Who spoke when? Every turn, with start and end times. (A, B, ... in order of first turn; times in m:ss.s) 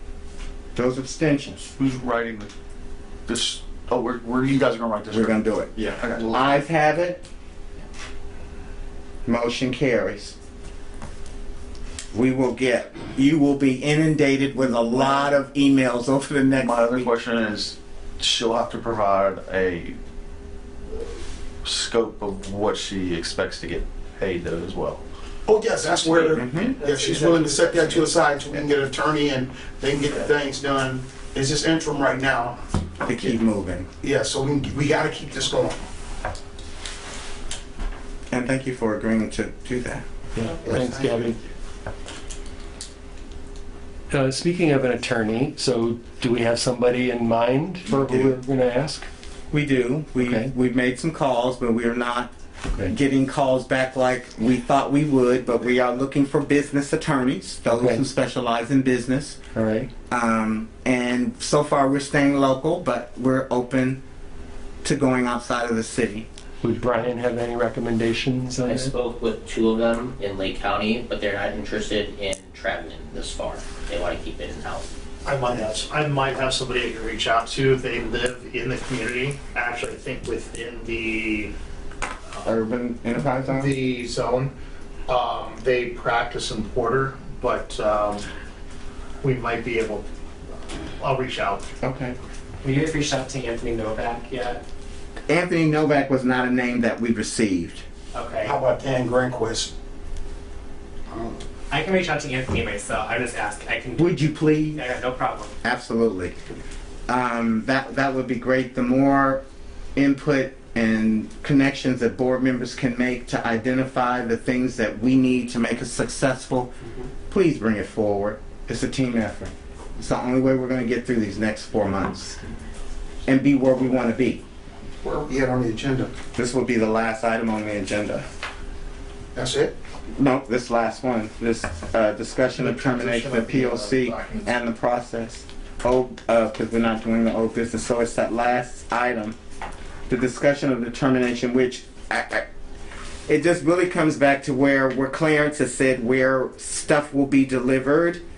0:00.8-0:01.6 A
0:01.8-0:02.5 B
0:03.3-0:05.4 B
0:05.1-0:07.2 A
0:05.9-0:06.3 B
0:09.2-0:10.4 A
0:12.1-0:17.1 A
0:15.0-0:15.3 B
0:16.5-0:20.0 B
0:21.6-0:25.0 B
0:25.4-0:32.6 C
0:26.3-0:26.8 A
0:33.0-0:33.9 A
0:34.0-0:35.8 C
0:38.3-0:40.0 A
0:40.4-0:41.4 D
0:44.1-0:49.1 D
0:47.9-0:48.3 A
0:49.5-0:52.3 A
0:50.2-0:50.5 D
0:52.8-0:59.4 A
0:57.7-0:58.0 D
0:59.5-0:59.9 D
1:00.1-1:04.0 A
1:04.8-1:06.3 A
1:06.6-1:08.9 D
1:08.6-1:14.8 E
1:15.2-1:21.5 F
1:22.4-1:23.7 A
1:23.4-1:24.5 F
1:25.1-1:28.3 F
1:29.2-1:30.1 F
1:31.0-1:31.6 F
1:31.8-1:32.1 A
1:32.6-1:34.6 G
1:35.3-1:37.8 A
1:38.1-1:38.6 G
1:38.4-1:39.7 C
1:41.7-1:45.5 G
1:44.0-1:44.8 A
1:45.6-1:46.3 A
1:47.1-1:49.4 A
1:50.0-1:56.7 A
1:57.3-2:02.4 A
2:03.2-2:04.4 A
2:05.0-2:06.1 C
2:06.4-2:08.2 A
2:09.3-2:09.8 C
2:10.2-2:19.4 A
2:12.6-2:14.5 F
2:20.1-2:22.4 A
2:23.3-2:28.2 A